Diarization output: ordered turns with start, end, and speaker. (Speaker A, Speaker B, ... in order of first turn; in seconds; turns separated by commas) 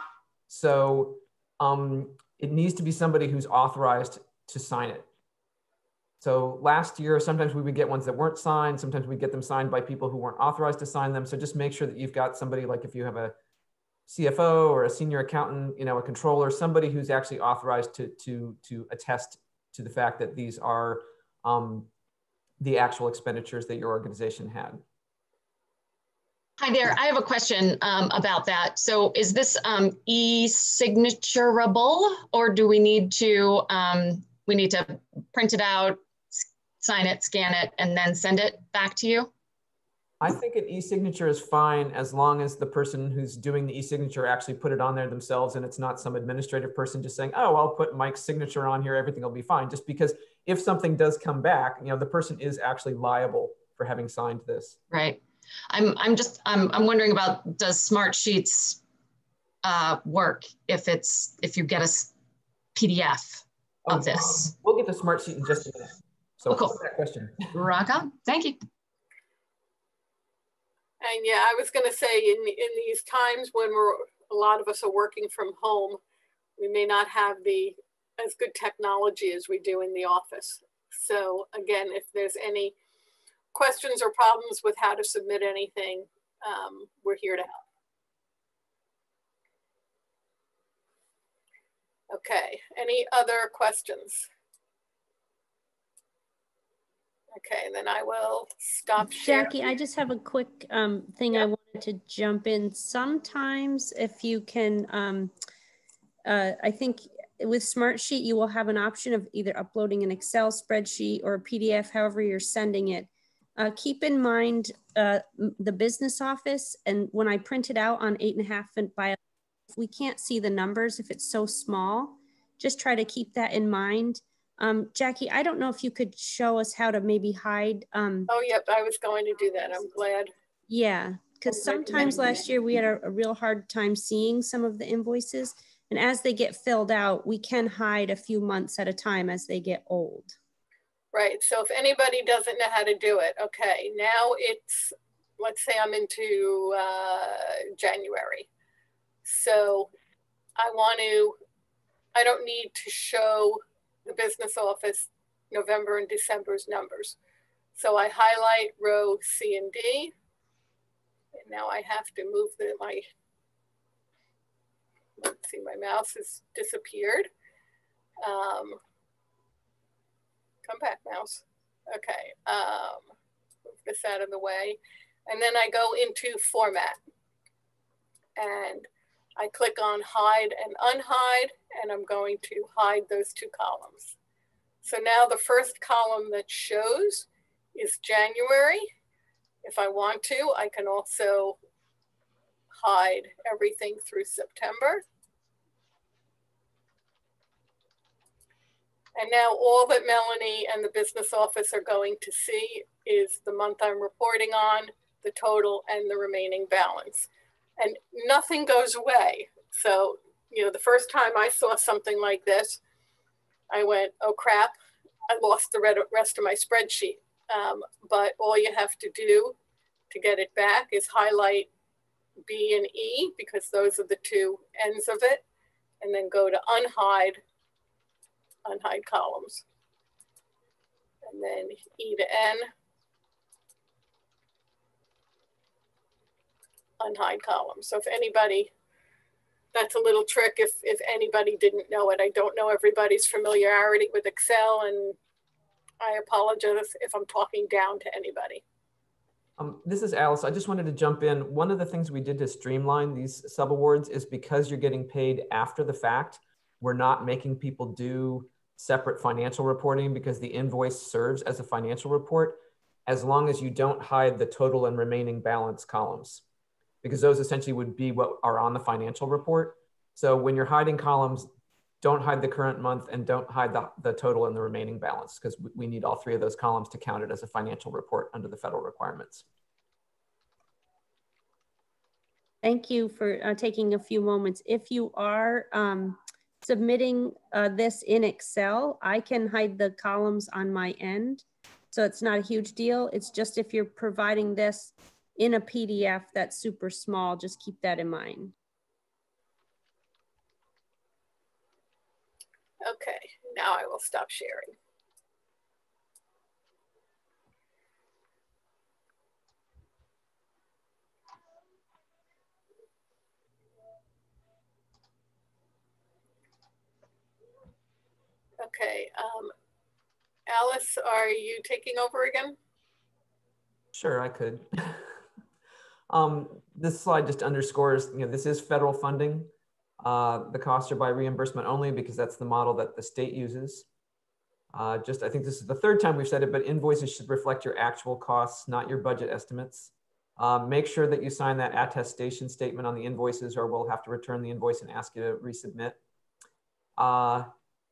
Speaker A: 0.5-5.1, Speaker A: 6.2-13.3, Speaker A: 14.1-21.9, Speaker A: 22.6-24.8, Speaker B: 26.6-39.3, Speaker A: 40.2-54.8, Speaker B: 54.9-58.8, Speaker B: 59.6-62.1, Speaker B: 62.8-64.5, Speaker A: 63.9-67.5, Speaker B: 66.5-66.8, Speaker B: 67.5-68.6, Speaker C: 71.0-76.0, Speaker C: 76.6-82.8, Speaker C: 83.5-87.6, Speaker C: 92.1-94.3, Speaker C: 97.3-99.5, Speaker D: 99.0-105.3, Speaker D: 106.3-119.2, Speaker D: 119.7-128.3, Speaker C: 128.3-130.3, Speaker D: 130.7-140.3, Speaker C: 131.6-132.4, Speaker C: 141.1-148.5, Speaker C: 149.2-149.9, Speaker C: 150.6-151.4, Speaker C: 152.2-157.2, Speaker C: 157.8-160.1, Speaker C: 161.3-163.1, Speaker C: 165.2-167.3, Speaker C: 168.2-168.8, Speaker C: 170.7-173.1, Speaker C: 173.7-177.0, Speaker C: 178.4-184.2, Speaker C: 184.8-188.9, Speaker C: 189.6-191.6, Speaker C: 192.8-195.0, Speaker C: 199.2-212.8, Speaker C: 213.7-214.8, Speaker C: 215.3-219.6, Speaker C: 220.1-221.7, Speaker C: 222.4-225.4, Speaker C: 226.0-227.4, Speaker C: 228.7-229.6, Speaker C: 231.2-232.7, Speaker C: 237.0-238.7, Speaker C: 239.7-245.2, Speaker C: 246.0-248.6, Speaker A: 249.6-266.4, Speaker A: 267.0-271.5, Speaker A: 272.0-279.4, Speaker D: 282.6-298.5, Speaker C: 302.8-304.7, Speaker C: 318.6-319.5, Speaker C: 320.5-322.6, Speaker A: 323.9-325.1, Speaker A: 326.1-333.9, Speaker A: 334.7-346.0, Speaker A: 347.0-347.5